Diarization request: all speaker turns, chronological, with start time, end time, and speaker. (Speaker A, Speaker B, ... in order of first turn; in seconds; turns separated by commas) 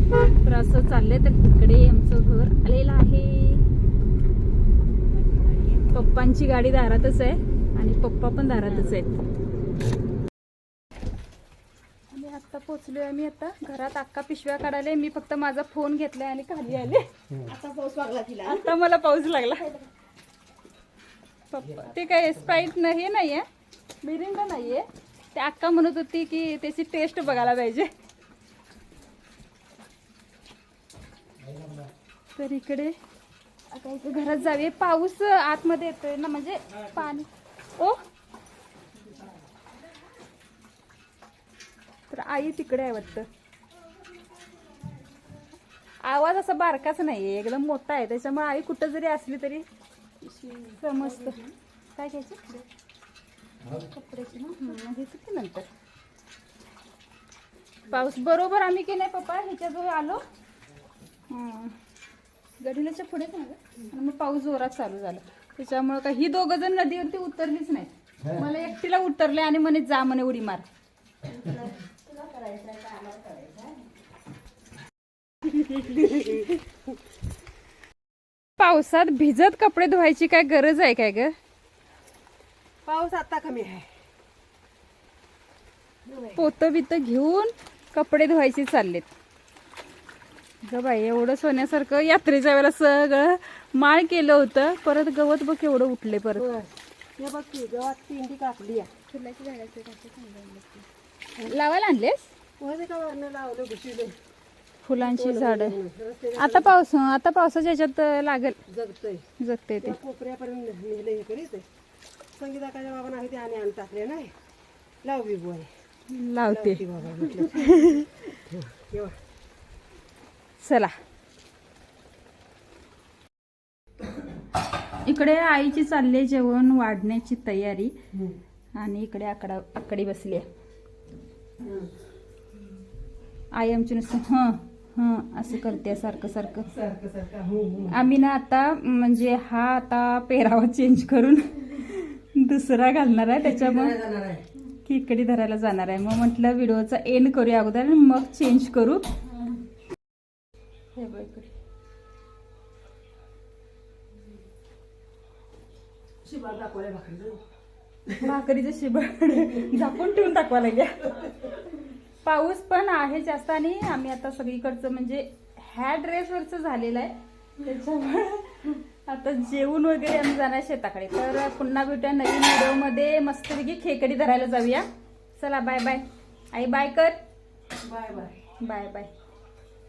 Speaker A: 0.4-3.6, Speaker B: 5.2-5.9, Speaker A: 5.9-9.1, Speaker A: 12.1-17.1, Speaker B: 17.4-18.7, Speaker A: 18.4-19.7, Speaker A: 21.5-23.4, Speaker A: 24.0-27.9, Speaker A: 32.3-33.0, Speaker A: 33.7-38.0, Speaker A: 42.1-43.3, Speaker A: 46.0-49.6, Speaker B: 50.2-51.5, Speaker A: 50.6-51.4, Speaker A: 51.9-52.6, Speaker A: 53.9-55.7, Speaker A: 57.9-60.2, Speaker A: 61.3-61.8, Speaker A: 62.6-70.6, Speaker B: 71.3-73.8, Speaker C: 75.9-76.6, Speaker A: 78.6-81.3, Speaker C: 82.8-83.9, Speaker C: 86.0-86.4, Speaker A: 86.3-89.1, Speaker A: 90.6-96.5, Speaker C: 96.4-98.9, Speaker B: 99.1-100.8, Speaker A: 101.4-102.3, Speaker C: 102.6-104.2, Speaker A: 104.8-105.8, Speaker C: 105.0-106.7, Speaker A: 106.3-108.6, Speaker C: 108.7-109.2, Speaker A: 109.4-110.0, Speaker C: 109.8-111.7, Speaker C: 112.3-114.3, Speaker C: 115.0-115.7, Speaker A: 116.1-118.4, Speaker C: 116.5-119.2, Speaker A: 120.6-121.0, Speaker A: 125.0-127.9, Speaker A: 128.8-130.5, Speaker C: 131.6-131.9, Speaker A: 133.5-136.7, Speaker C: 136.7-137.9, Speaker A: 137.9-143.9, Speaker C: 143.5-144.4, Speaker A: 144.8-149.0, Speaker A: 150.9-151.5, Speaker C: 156.2-157.4, Speaker A: 158.2-161.5, Speaker A: 162.2-177.2, Speaker C: 177.8-178.3, Speaker A: 178.6-179.1